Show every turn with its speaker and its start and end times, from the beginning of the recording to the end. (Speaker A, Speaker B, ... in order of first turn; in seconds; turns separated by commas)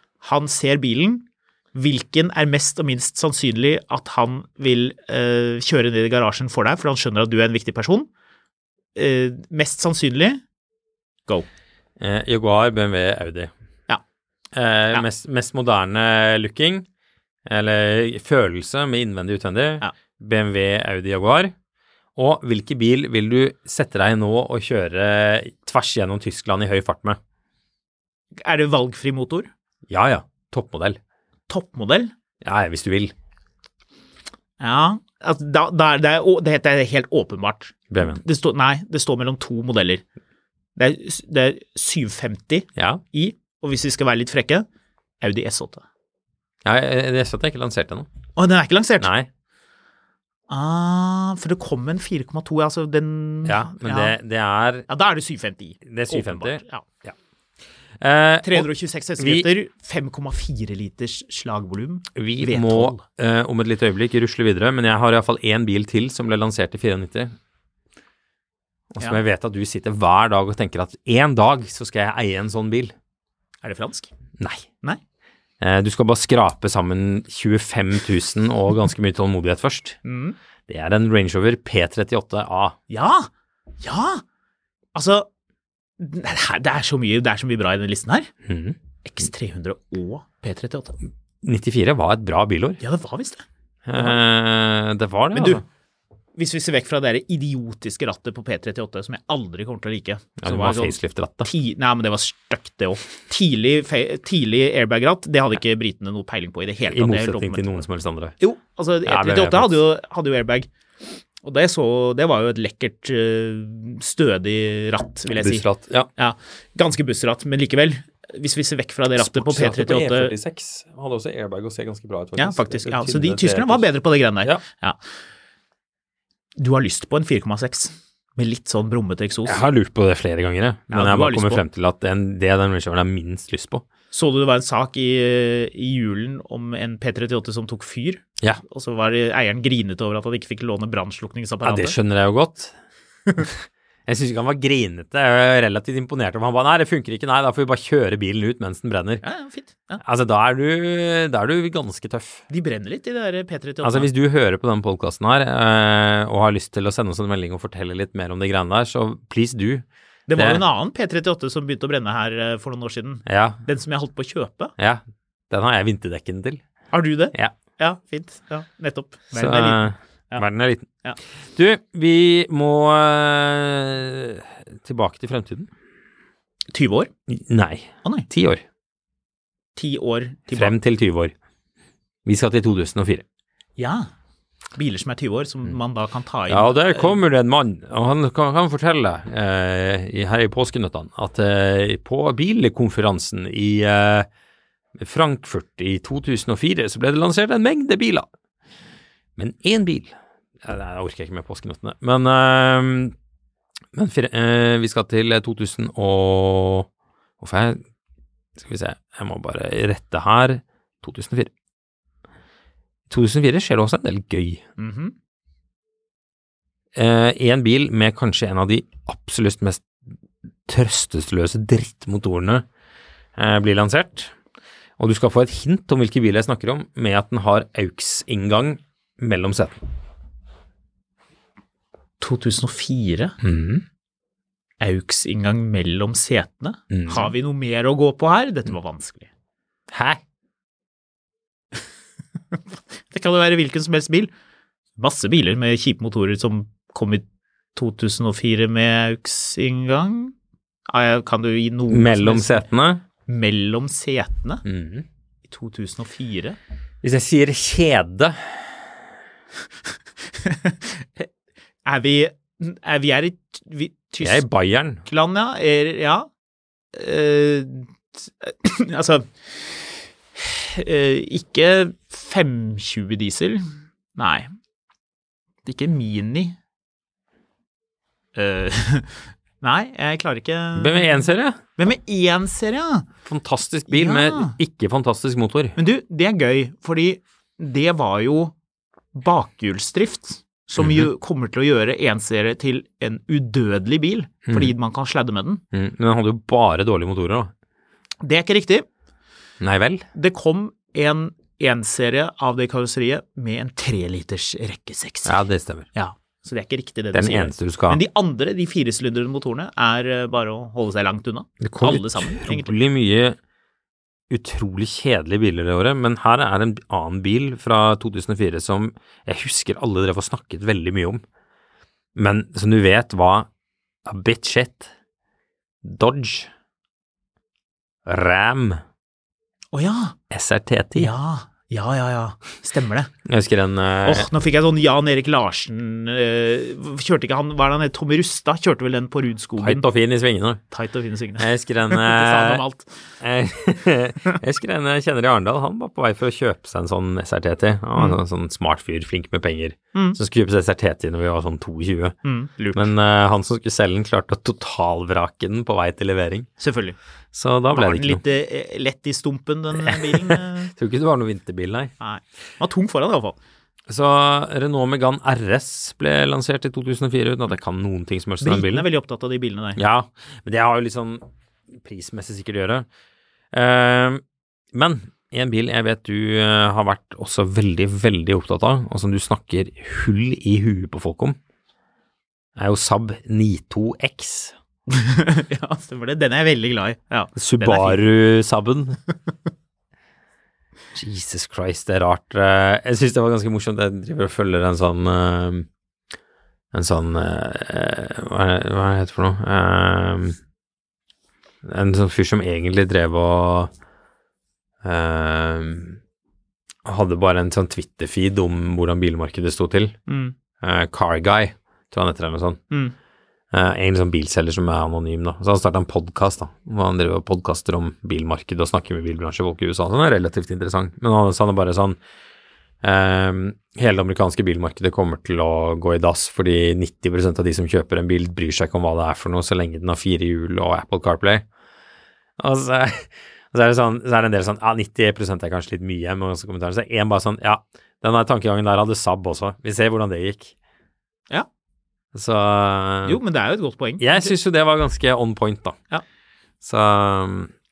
Speaker A: 0.2-8.1, Speaker A: 8.9-10.4, Speaker B: 12.0-13.5, Speaker B: 14.5-16.9, Speaker B: 17.5-21.5, Speaker B: 22.1-27.2, Speaker A: 28.4-29.5, Speaker B: 29.9-31.0, Speaker A: 31.5-32.1, Speaker B: 32.4-33.1, Speaker A: 34.6-40.0, Speaker B: 37.9-38.2, Speaker A: 40.8-44.6, Speaker B: 42.8-43.0, Speaker A: 45.2-45.8, Speaker B: 46.6-48.1, Speaker A: 48.4-49.1, Speaker B: 49.0-49.3, Speaker A: 50.5-54.1, Speaker B: 53.5-54.9, Speaker A: 54.9-56.8, Speaker B: 55.8-57.1, Speaker B: 58.0-59.5, Speaker A: 58.4-63.0, Speaker B: 62.1-67.3, Speaker B: 68.9-72.9, Speaker A: 73.6-74.1, Speaker B: 74.4-74.7, Speaker B: 75.6-80.0, Speaker A: 80.0-80.4, Speaker B: 80.7-82.8, Speaker A: 82.9-83.3, Speaker A: 83.8-84.2, Speaker A: 84.9-85.3, Speaker A: 86.0-88.3, Speaker B: 88.4-88.8, Speaker A: 89.0-91.0, Speaker B: 91.4-92.8, Speaker A: 92.8-93.4, Speaker B: 93.8-95.6, Speaker A: 95.3-95.6, Speaker A: 96.3-107.7, Speaker B: 100.4-101.5, Speaker B: 106.9-108.3, Speaker A: 108.4-110.7, Speaker B: 109.0-109.8, Speaker A: 111.4-115.7, Speaker B: 115.3-116.1, Speaker A: 116.2-120.3, Speaker B: 119.2-123.9, Speaker A: 122.4-125.0, Speaker A: 126.5-129.6, Speaker B: 129.4-133.8, Speaker A: 130.9-131.6, Speaker A: 134.1-142.0, Speaker B: 141.6-142.7, Speaker B: 143.4-149.2, Speaker A: 149.2-150.0, Speaker B: 150.0-152.4, Speaker A: 152.5-154.1, Speaker B: 153.8-159.8, Speaker A: 160.3-164.7, Speaker B: 160.3-160.6, Speaker B: 163.2-163.6, Speaker B: 164.8-166.6, Speaker A: 166.9-170.4, Speaker B: 169.3-170.9, Speaker B: 171.5-175.7, Speaker A: 176.7-177.1, Speaker B: 177.3-178.6, Speaker A: 179.8-180.7, Speaker B: 180.5-181.3, Speaker B: 182.2-183.2, Speaker A: 183.8-184.1, Speaker A: 184.7-187.2, Speaker B: 186.5-194.3, Speaker B: 195.0-198.3, Speaker B: 199.4-203.1, Speaker B: 203.9-206.9, Speaker B: 207.4-207.8, Speaker B: 208.6-211.5, Speaker B: 213.1-214.6, Speaker A: 214.8-215.1, Speaker B: 216.9-219.9, Speaker B: 220.7-222.7, Speaker B: 223.4-224.3, Speaker B: 225.0-229.8, Speaker A: 232.2-233.4, Speaker B: 233.4-233.8, Speaker A: 234.8-239.3, Speaker B: 236.9-237.3, Speaker B: 239.9-240.2, Speaker A: 242.5-244.3, Speaker A: 245.0-250.3, Speaker A: 250.9-252.7, Speaker B: 251.9-253.0, Speaker A: 253.2-254.6, Speaker B: 254.6-255.1, Speaker A: 255.4-256.6, Speaker B: 257.0-258.9, Speaker A: 260.2-261.3, Speaker A: 261.8-264.4, Speaker B: 264.2-265.0, Speaker A: 265.0-266.3, Speaker A: 266.9-274.5, Speaker A: 275.6-276.6, Speaker A: 278.3-283.1, Speaker B: 280.8-281.6, Speaker B: 283.2-285.8, Speaker A: 283.9-284.6, Speaker A: 285.8-288.5, Speaker A: 289.1-295.6, Speaker B: 290.8-291.1, Speaker B: 294.5-294.7, Speaker B: 295.7-297.5, Speaker A: 298.2-298.9, Speaker B: 299.6-300.0, Speaker A: 300.1-305.4, Speaker B: 305.2-305.9, Speaker A: 305.9-312.7, Speaker B: 307.1-308.0, Speaker B: 311.6-313.4, Speaker B: 314.3-321.2, Speaker B: 322.1-323.5, Speaker B: 324.0-324.9, Speaker B: 325.8-326.5, Speaker B: 328.1-328.8, Speaker A: 329.7-330.2, Speaker B: 330.3-331.1, Speaker A: 330.9-333.1, Speaker B: 333.2-334.3, Speaker A: 334.0-339.8, Speaker B: 339.6-340.6, Speaker A: 340.7-343.1, Speaker B: 341.4-342.6, Speaker B: 343.2-352.1, Speaker A: 352.2-352.9, Speaker B: 352.7-356.5, Speaker A: 356.6-357.0, Speaker B: 357.3-358.2, Speaker A: 357.7-360.7, Speaker B: 359.8-361.9, Speaker A: 362.0-363.4, Speaker B: 363.9-368.9, Speaker A: 368.4-369.8, Speaker B: 369.8-371.2, Speaker B: 371.8-372.9, Speaker B: 373.5-374.2, Speaker B: 374.7-381.4, Speaker B: 382.6-384.6, Speaker A: 384.9-388.0, Speaker B: 387.4-389.0, Speaker B: 390.9-395.7, Speaker B: 396.7-400.4, Speaker B: 401.6-403.7, Speaker B: 404.8-406.0, Speaker B: 406.8-409.9, Speaker A: 410.1-410.3, Speaker B: 410.6-412.6, Speaker A: 412.7-412.9, Speaker B: 413.5-422.0, Speaker B: 422.8-431.4, Speaker B: 432.4-440.5, Speaker B: 442.1-443.2, Speaker A: 443.0-444.3, Speaker B: 444.0-445.8, Speaker B: 446.6-447.5